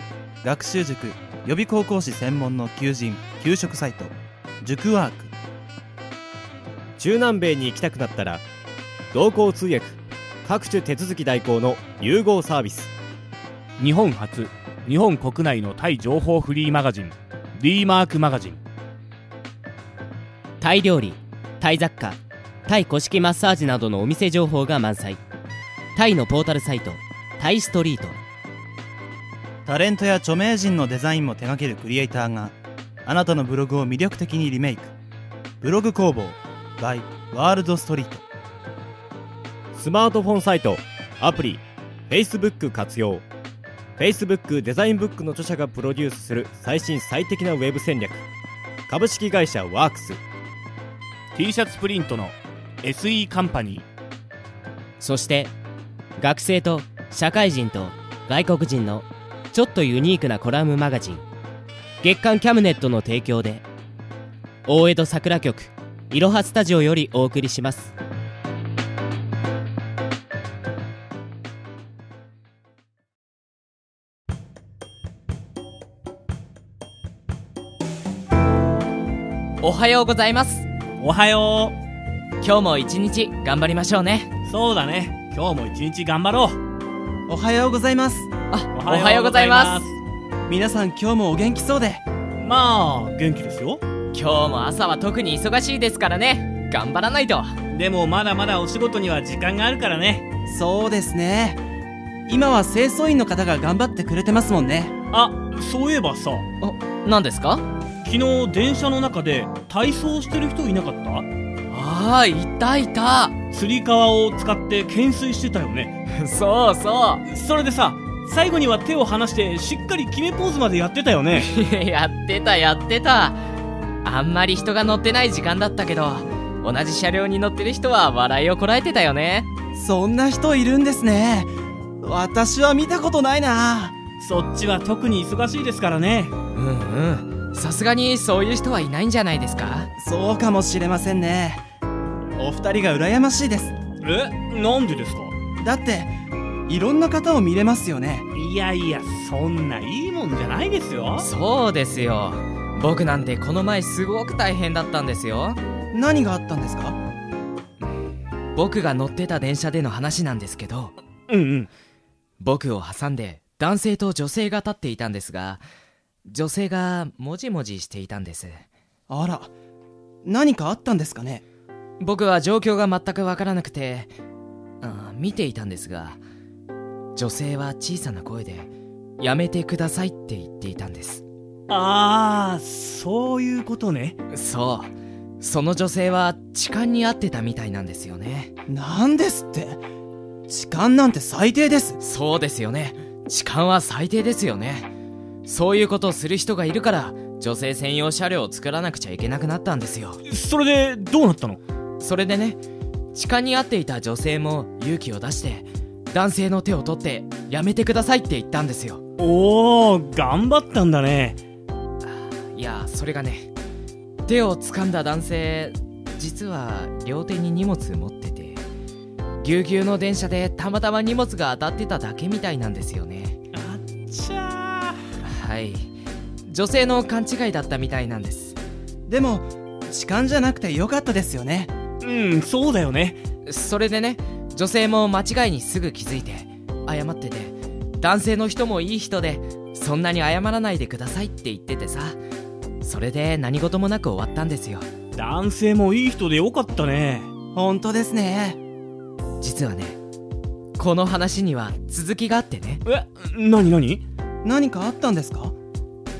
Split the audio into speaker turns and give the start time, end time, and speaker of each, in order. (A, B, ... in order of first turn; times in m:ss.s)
0:00.4-0:05.3 A
0:07.0-0:08.4 B
0:09.1-0:12.9 B
0:13.8-0:18.6 C
0:20.6-0:25.2 D
0:26.0-0:28.2 D
0:29.6-0:32.5 A
0:33.0-0:34.9 A
0:35.6-0:38.2 A
0:39.8-0:43.3 B
0:44.0-0:48.3 B
0:48.9-0:50.2 B
0:51.3-0:53.9 C
0:55.0-0:55.5 D
0:56.2-1:01.2 D
1:02.0-1:03.7 D
1:04.7-1:07.9 D
1:19.6-1:20.6 E
1:21.0-1:21.8 C
1:22.4-1:24.3 E
1:24.5-1:26.6 C
1:27.3-1:28.3 A
1:28.5-1:29.8 E
1:28.7-1:30.0 C
1:30.5-1:32.0 A
1:32.4-1:33.8 C
1:34.1-1:37.5 E
1:37.7-1:40.3 C
1:40.5-1:41.6 A
1:42.3-1:44.9 A
1:45.1-1:46.5 C
1:46.6-1:47.6 E
1:48.0-1:51.3 C
1:51.7-1:53.4 E
1:53.5-1:56.0 C
1:56.2-1:57.2 E
1:57.3-2:01.5 C
2:01.3-2:03.4 E
2:04.0-2:09.5 E
2:09.8-2:11.5 A
2:12.0-2:14.0 A
2:14.2-2:16.3 C
2:16.6-2:19.9 E
2:20.0-2:21.6 A
2:22.4-2:23.8 A
2:24.0-2:25.4 C
2:25.6-2:26.1 A
2:26.7-2:28.3 A
2:28.4-2:31.3 C
2:31.2-2:35.6 E
2:35.9-2:37.0 A
2:38.6-2:40.9 E
2:41.3-2:41.7 C
2:42.4-2:45.6 E
2:46.3-2:48.6 E
2:49.1-2:49.5 A
2:50.2-2:51.4 A
2:52.0-2:54.1 E
2:54.8-2:56.2 E
2:57.2-2:58.7 E
2:59.2-3:01.2 E
3:01.7-3:04.2 C
3:04.3-3:08.5 E
3:08.7-3:09.8 A
3:10.5-3:12.0 A
3:12.0-3:14.9 E
3:15.5-3:20.2 E
3:20.3-3:21.6 C
3:22.0-3:22.6 E
3:23.2-3:29.0 E
3:29.2-3:31.4 C
3:32.5-3:33.5 E
3:34.3-3:38.6 E
3:39.4-3:43.4 E
3:43.5-3:45.0 C
3:45.3-3:45.9 E
3:46.5-3:48.6 E
3:49.1-3:51.7 A
3:52.0-3:53.2 C
3:53.5-4:02.2 E
4:02.8-4:04.9 E
4:05.2-4:07.3 C
4:07.6-4:08.6 A
4:09.4-4:10.0 E
4:10.8-4:12.8 E
4:12.8-4:14.0 C
4:14.4-4:15.5 A